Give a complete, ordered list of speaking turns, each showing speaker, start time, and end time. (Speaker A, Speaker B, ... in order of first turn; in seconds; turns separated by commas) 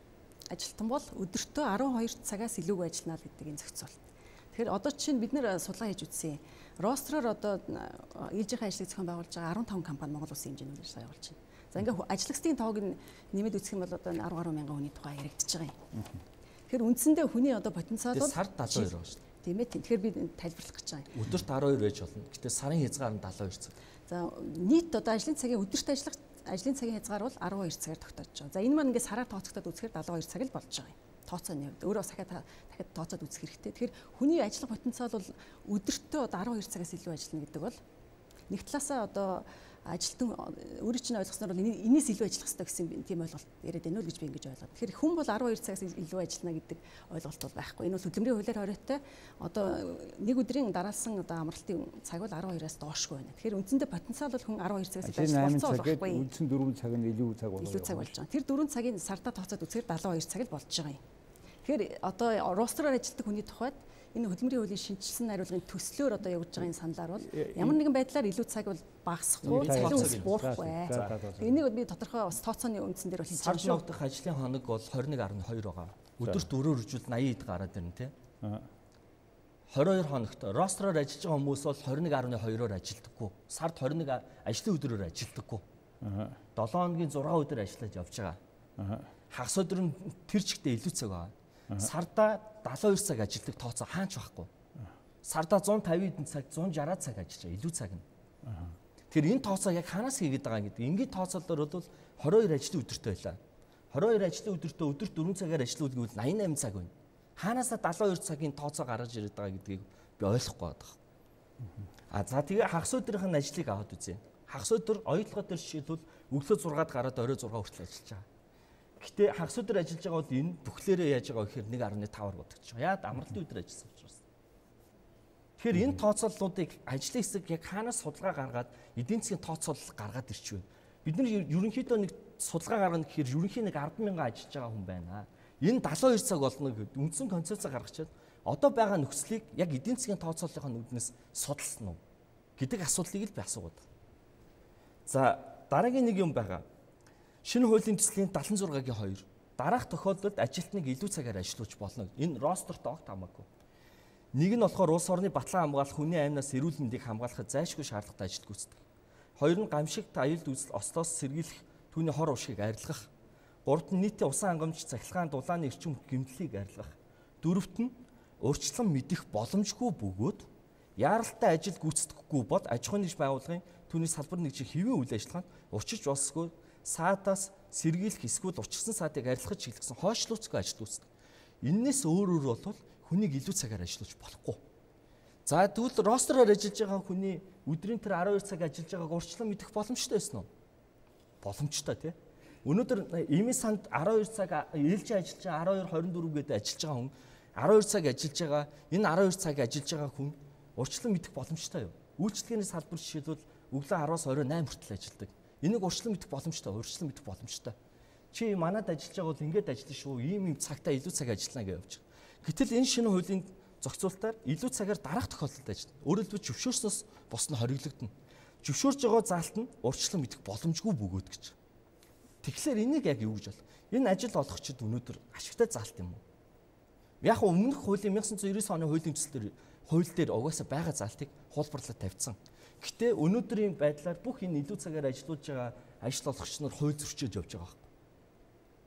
Speaker A: 0.5-15.8, Speaker A: 16.7-21.1, Speaker B: 18.1-19.2, Speaker B: 21.1-23.8, Speaker A: 24.1-37.8, Speaker A: 38.5-56.3, Speaker C: 55.0-58.1, Speaker A: 57.6-61.0, Speaker A: 61.6-73.8, Speaker C: 67.2-67.8, Speaker C: 69.4-71.6, Speaker B: 69.5-71.2, Speaker B: 73.3-78.1, Speaker C: 76.2-76.5, Speaker C: 78.4-78.7, Speaker B: 79.7-85.6, Speaker C: 86.0-86.4, Speaker B: 86.6-88.4, Speaker C: 88.8-89.1, Speaker B: 89.3-94.5, Speaker B: 95.2-98.0, Speaker C: 98.5-98.8, Speaker B: 99.1-103.4, Speaker B: 103.9-111.0, Speaker B: 112.1-118.2, Speaker B: 119.0-124.2, Speaker B: 125.6-142.0, Speaker B: 142.6-143.8, Speaker B: 145.1-146.7, Speaker B: 147.4-153.5, Speaker B: 154.3-158.8, Speaker B: 159.4-163.1, Speaker B: 163.7-181.1, Speaker B: 181.6-184.6, Speaker B: 185.4-190.5, Speaker B: 191.4-207.8, Speaker B: 208.3-218.1, Speaker B: 218.6-221.6, Speaker B: 222.4-226.2, Speaker B: 227.2-237.9